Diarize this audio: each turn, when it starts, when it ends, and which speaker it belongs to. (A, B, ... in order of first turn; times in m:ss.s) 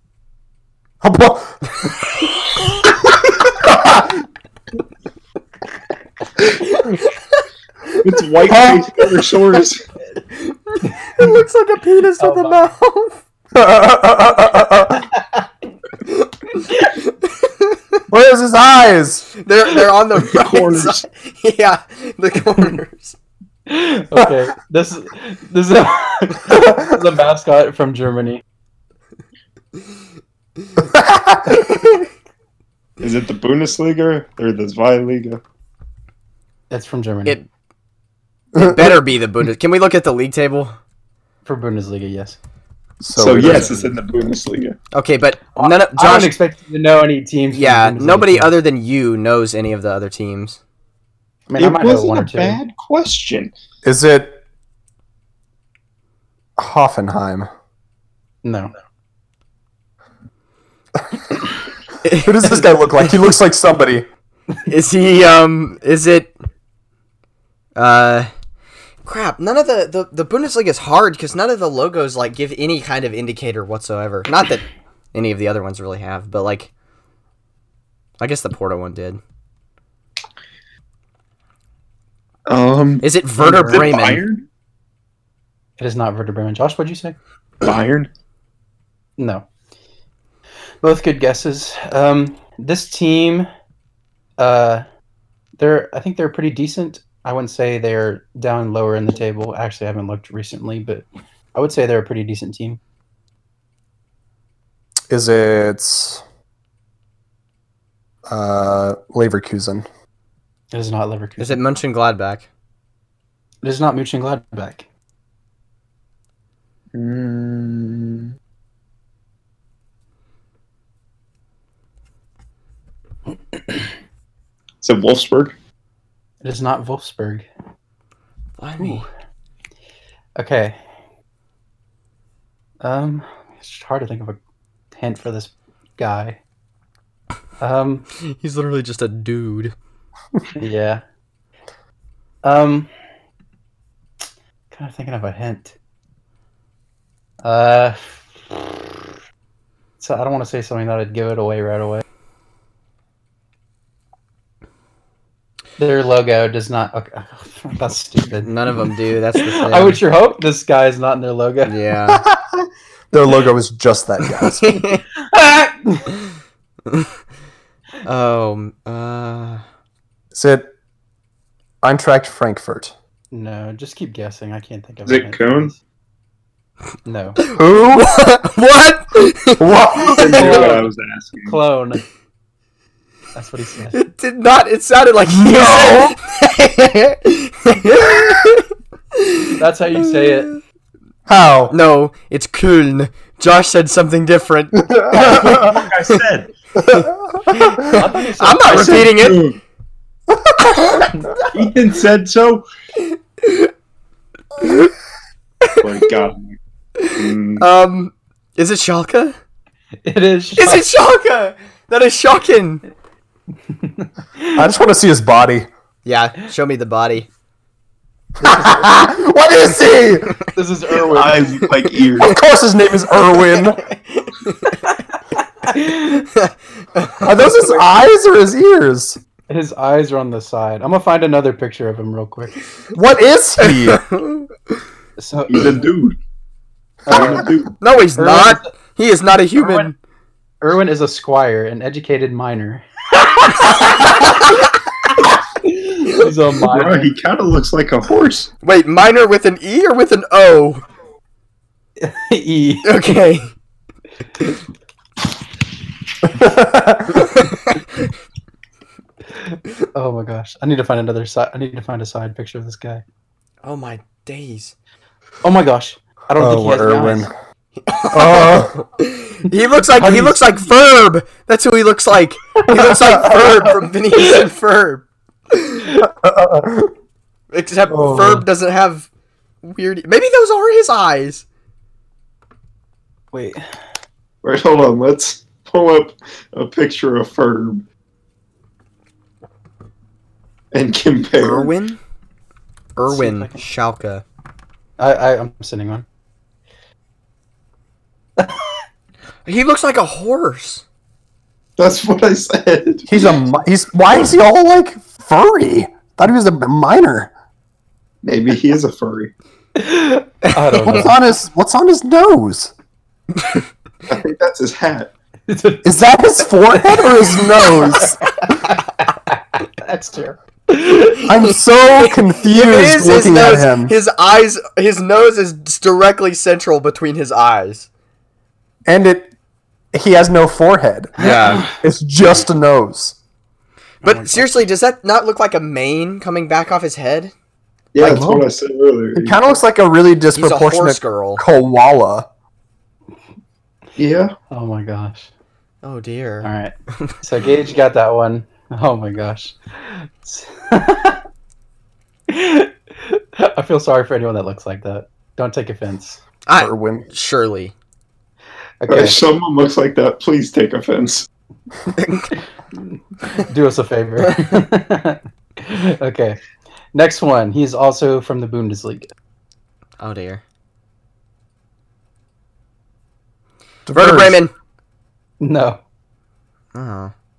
0:01.0-0:01.8 A
0:03.6-0:04.1 A
0:06.7-0:07.0 B
0:08.0-0:09.8 C
0:08.5-0:08.8 A
0:10.5-0:13.2 B
0:12.2-0:12.6 D
0:13.5-0:15.1 A
0:17.4-0:18.0 B
0:18.1-0:19.3 A
0:19.4-0:23.2 B
0:20.2-0:21.0 C
0:23.7-0:28.4 D
0:30.8-0:31.8 A
0:33.0-0:35.4 C
0:36.7-0:37.4 D
0:38.6-0:39.0 A
0:38.6-0:40.8 B
0:41.5-0:42.4 D
0:43.0-0:43.8 A
0:43.2-0:44.8 C
0:43.4-0:43.9 D
0:44.9-0:46.3 B
0:45.6-0:48.5 D
0:47.5-0:50.6 B
0:51.5-0:52.6 D
0:51.6-0:53.5 C
0:53.8-0:54.4 A
0:56.6-0:57.5 A
0:58.4-0:58.7 D
1:02.0-1:03.2 B
1:02.2-1:04.1 A
1:04.7-1:06.3 B
1:07.8-1:08.3 B
1:09.0-1:16.7 B
1:18.2-1:19.2 B
1:22.5-1:24.4 C
1:23.0-1:24.2 B
1:25.8-1:27.2 D
1:27.6-1:28.1 C
1:29.2-1:29.4 D
1:30.8-1:33.5 D
1:34.4-1:34.8 D
1:35.6-1:42.8 D
1:45.1-1:46.2 A
1:48.3-1:49.8 A
1:50.7-1:51.6 D
1:51.4-1:52.5 B
1:53.6-1:54.8 D
1:56.9-1:58.3 C
2:04.8-2:05.6 C
2:06.4-2:07.5 D
2:08.6-2:09.1 B
2:08.8-2:09.0 D
2:10.4-2:10.8 D
2:12.8-2:14.4 D
2:14.9-2:16.4 D
2:17.6-2:18.1 D
2:18.2-2:19.7 B
2:20.6-2:21.0 D
2:22.4-2:22.9 D
2:24.7-2:25.8 D
2:27.4-2:29.0 D
2:30.0-2:32.0 D
2:35.8-2:41.7 D
2:38.4-2:40.0 B
2:41.6-2:42.2 B
2:42.1-2:44.7 A
2:44.4-2:45.0 B
2:45.2-2:46.1 D
2:48.0-2:49.6 B
2:50.3-2:50.7 A
2:51.8-2:52.9 A
2:53.3-2:55.8 D
2:55.1-2:55.7 C
2:57.0-2:57.4 D
2:57.5-2:59.7 B
2:57.5-2:58.2 A
2:59.6-3:00.7 A
3:00.0-3:01.6 C
3:00.2-3:00.9 D
3:01.4-3:02.0 D
3:03.4-3:04.0 D
3:03.9-3:10.6 B
3:05.3-3:06.2 A
3:09.6-3:10.5 D
3:11.3-3:11.8 A
3:11.7-3:15.8 B
3:14.9-3:15.8 A
3:15.1-3:16.5 C
3:16.8-3:18.0 A
3:16.9-3:19.5 B
3:17.9-3:19.0 D
3:18.6-3:19.6 C
3:21.5-3:22.7 C
3:23.4-3:23.7 B
3:24.6-3:24.9 B
3:25.8-3:26.6 C
3:27.0-3:29.4 B
3:27.1-3:27.7 C
3:30.0-3:30.8 D
3:30.6-3:32.8 B
3:33.7-3:34.7 D
3:34.6-3:35.7 A
3:36.0-3:37.3 B
3:38.4-3:40.4 A
3:38.4-3:38.9 D
3:40.6-3:41.6 D
3:41.0-3:42.4 C
3:42.2-3:43.8 A
3:43.4-3:44.9 B
3:45.6-3:46.3 D
3:46.3-3:47.4 B
3:47.2-3:49.2 A
3:49.5-3:52.6 D
3:52.9-3:54.0 A
3:53.6-3:54.5 B
3:55.2-3:55.9 D
3:55.5-3:56.2 C
3:57.1-3:57.5 D
3:57.1-3:57.7 C
3:57.8-4:00.0 B
3:58.2-3:58.7 D
3:59.6-3:59.9 D
4:00.6-4:04.3 D
4:05.6-4:07.1 D
4:06.6-4:08.5 C
4:08.6-4:10.8 B
4:12.0-4:12.9 D
4:12.8-4:13.5 B
4:16.2-4:17.3 A
4:17.4-4:17.8 B
4:19.9-4:23.0 D
4:23.6-4:24.7 B
4:25.4-4:27.3 D
4:26.4-4:27.3 A
4:27.9-4:35.9 B
4:28.1-4:28.8 A
4:30.0-4:30.6 D
4:32.7-4:33.8 A
4:36.0-4:36.9 A
4:37.5-4:39.1 B
4:37.9-4:38.4 A
4:39.6-4:41.4 B
4:43.3-4:43.6 D
4:44.4-4:47.8 C
4:50.7-4:51.7 C
4:51.4-4:52.0 B
4:53.0-4:54.2 B
4:53.1-4:53.6 D
4:55.0-4:56.1 D
4:58.4-4:58.7 D
4:59.5-5:00.8 B
5:01.8-5:03.4 C
5:03.1-5:07.3 A
5:08.2-5:09.3 C
5:09.8-5:11.2 D
5:10.8-5:12.7 A
5:14.1-5:15.1 C
5:15.5-5:16.0 D
5:15.8-5:18.3 A
5:16.7-5:18.1 D
5:18.6-5:21.2 D
5:21.2-5:23.9 A
5:22.5-5:27.9 B
5:28.9-5:29.3 A
5:29.9-5:33.2 A
5:31.2-5:31.7 B
5:31.2-5:31.7 D
5:34.0-5:34.6 D
5:34.0-5:37.3 B
5:37.9-5:39.6 C
5:38.0-5:38.5 A
5:39.2-5:42.3 A
5:40.4-5:41.4 B
5:44.0-5:44.4 C
5:44.5-5:45.3 D
5:45.8-5:46.5 B
5:46.4-5:51.2 D
5:52.3-5:56.2 D
5:56.5-5:57.7 B
5:56.6-5:57.1 A
5:58.8-5:59.2 D
5:58.9-6:01.3 C
6:02.0-6:02.3 B
6:02.8-6:06.4 D
6:06.9-6:09.1 D
6:10.0-6:10.4 B
6:13.9-6:14.4 A
6:13.9-6:14.5 B
6:15.4-6:15.8 D
6:16.7-6:17.1 B